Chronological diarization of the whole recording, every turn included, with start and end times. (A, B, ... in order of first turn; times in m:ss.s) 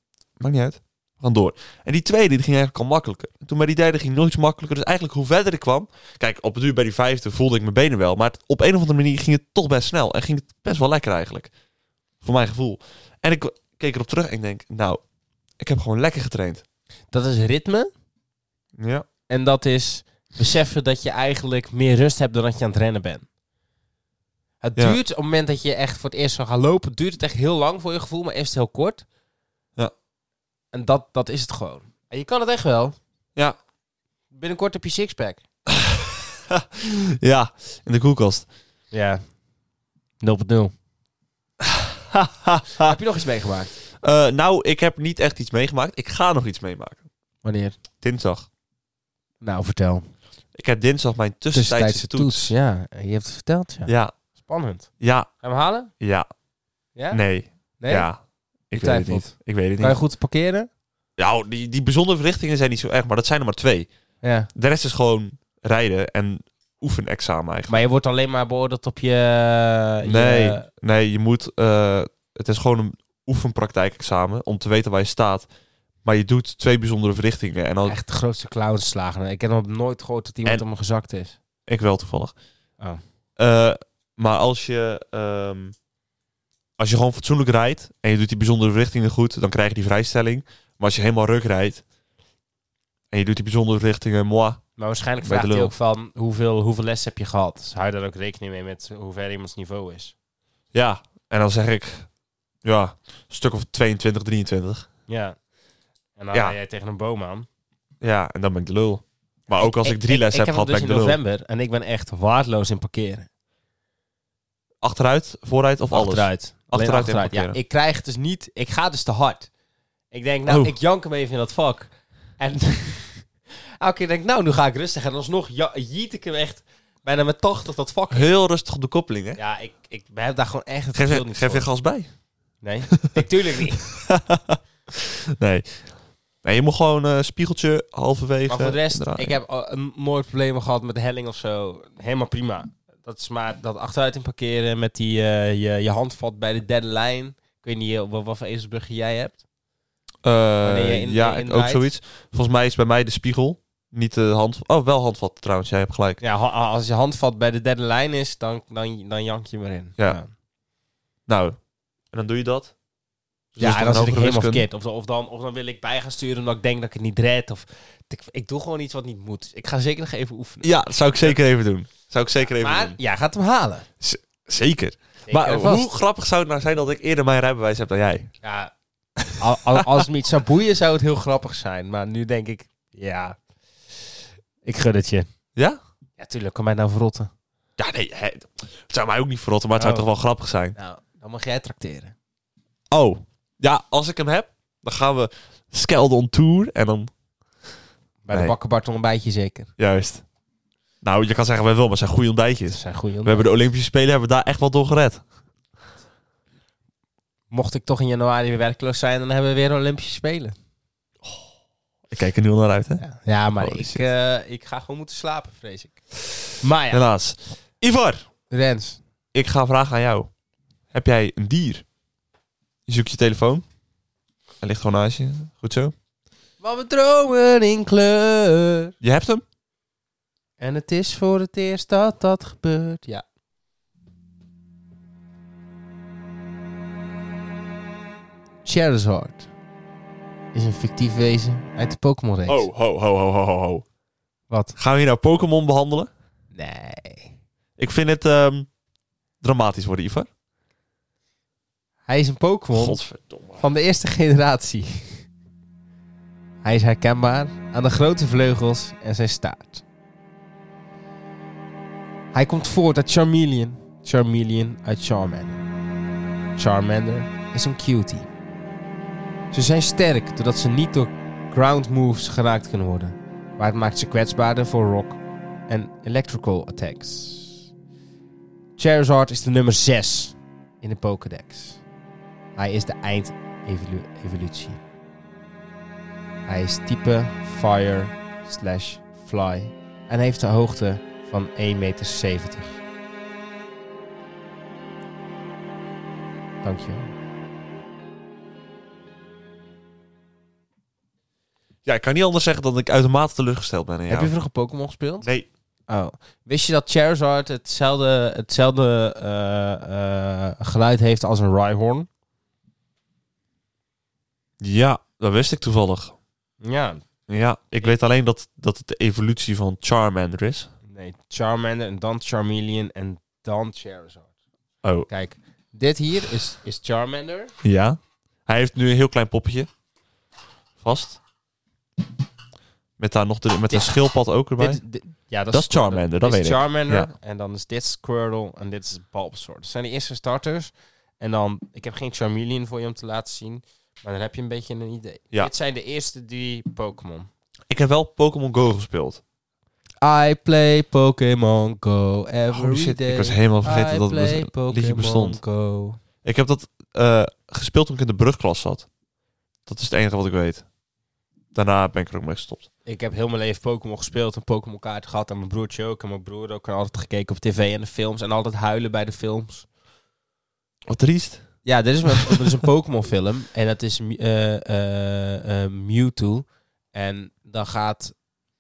0:00.4-0:11.5 A
0:12.2-0:15.0 A
0:15.6-0:16.6 A
0:17.1-0:17.9 B
0:18.8-0:19.1 A
0:19.3-0:23.2 B
0:24.6-0:29.0 B
0:30.7-0:33.0 B
0:34.3-0:35.4 B
0:35.7-0:38.5 A
0:38.9-0:39.2 B
0:40.2-0:40.7 B
0:41.6-0:43.0 A
0:42.8-0:43.7 B
0:44.0-0:47.0 A
0:47.4-0:47.8 B
0:48.0-0:48.5 A
0:49.4-0:50.1 B
0:50.6-0:52.5 A
0:51.5-0:54.9 B
0:53.9-0:54.1 A
0:55.0-0:55.3 A
0:55.4-0:55.9 B
0:56.0-0:56.3 A
0:57.1-1:00.0 A
0:57.8-0:58.1 B
0:58.7-1:00.7 B
1:01.2-1:03.9 A
1:04.2-1:04.5 B
1:04.5-1:07.8 A
1:07.7-1:10.7 B
1:10.1-1:15.5 A
1:16.0-1:18.0 A
1:17.9-1:21.4 B
1:21.7-1:22.3 A
1:23.4-1:25.8 A
1:26.8-1:31.8 A
1:33.1-1:34.6 A
1:34.8-1:40.1 B
1:35.2-1:35.7 A
1:40.7-1:42.1 A
1:42.6-1:44.9 A
1:45.1-1:45.4 B
1:46.2-1:47.5 B
1:48.0-1:51.2 A
1:49.6-1:53.3 B
1:54.8-1:57.6 A
1:55.9-1:59.5 B
2:00.1-2:08.3 B
2:00.5-2:00.7 A
2:08.1-2:09.4 A
2:09.4-2:11.7 B
2:11.0-2:12.1 A
2:12.6-2:13.8 B
2:12.9-2:13.2 A
2:13.8-2:15.8 A
2:16.4-2:19.4 A
2:18.5-2:29.4 B
2:30.2-2:36.2 A
2:30.6-2:31.9 B
2:36.2-2:40.3 B
2:41.3-2:41.6 A
2:42.1-2:42.7 A
2:43.6-2:44.6 A
2:43.6-2:51.4 B
2:50.6-2:53.0 A
2:52.4-2:53.9 B
2:54.0-2:58.3 A
2:55.3-2:56.0 B
2:58.4-2:58.7 B
2:59.2-3:00.0 A
2:59.4-3:03.4 B
3:04.6-3:05.3 B
3:06.2-3:07.3 B
3:07.8-3:10.8 A
3:09.8-3:10.1 B
3:10.8-3:12.1 B
3:12.9-3:17.1 A
3:18.2-3:19.7 B
3:19.8-3:20.2 A
3:21.0-3:25.2 A
3:22.7-3:23.5 B
3:27.5-3:30.6 B
3:31.2-3:31.5 A
3:32.1-3:33.0 A
3:33.0-3:36.0 B
3:33.6-3:34.0 A
3:36.6-3:37.0 B
3:36.9-3:38.2 A
3:38.5-3:39.0 B
3:39.3-3:40.3 A
3:40.9-3:41.8 A
3:42.9-3:43.6 A
3:44.6-3:45.9 A
3:46.6-3:48.9 B
3:49.0-3:49.4 A
3:50.6-3:53.2 B
3:58.6-3:59.5 B
4:00.5-4:02.7 B
4:02.5-4:03.8 A
4:04.5-4:04.8 B
4:04.8-4:06.1 A
4:06.5-4:07.4 B
4:07.8-4:08.7 A
4:09.4-4:10.3 A
4:12.1-4:13.0 B
4:12.7-4:13.6 A
4:13.6-4:15.3 B
4:16.6-4:19.8 B
4:22.3-4:25.6 B
4:26.6-4:28.3 B
4:29.5-4:37.7 B
4:38.8-4:41.8 B
4:42.6-4:44.8 B
4:46.5-4:52.8 B
4:56.6-4:57.1 B
5:01.8-5:04.3 A
5:04.1-5:05.3 B
5:05.2-5:05.5 A
5:05.9-5:12.1 B
5:14.6-5:16.2 A
5:16.6-5:17.0 B
5:17.3-5:20.7 A
5:20.9-5:24.3 B
5:25.1-5:27.5 B
5:27.6-5:29.7 A
5:30.8-5:31.2 A
5:33.0-5:34.8 A
5:33.7-5:34.0 B
5:34.6-5:47.3 B
5:35.5-5:37.1 A
5:47.7-5:49.2 A
5:50.0-5:56.0 B
5:52.5-5:55.4 A
5:56.2-5:58.9 A
5:59.7-6:00.6 A
6:01.5-6:02.7 A
6:02.9-6:09.7 B
6:10.9-6:11.5 A
6:11.6-6:18.2 B
6:12.1-6:12.6 A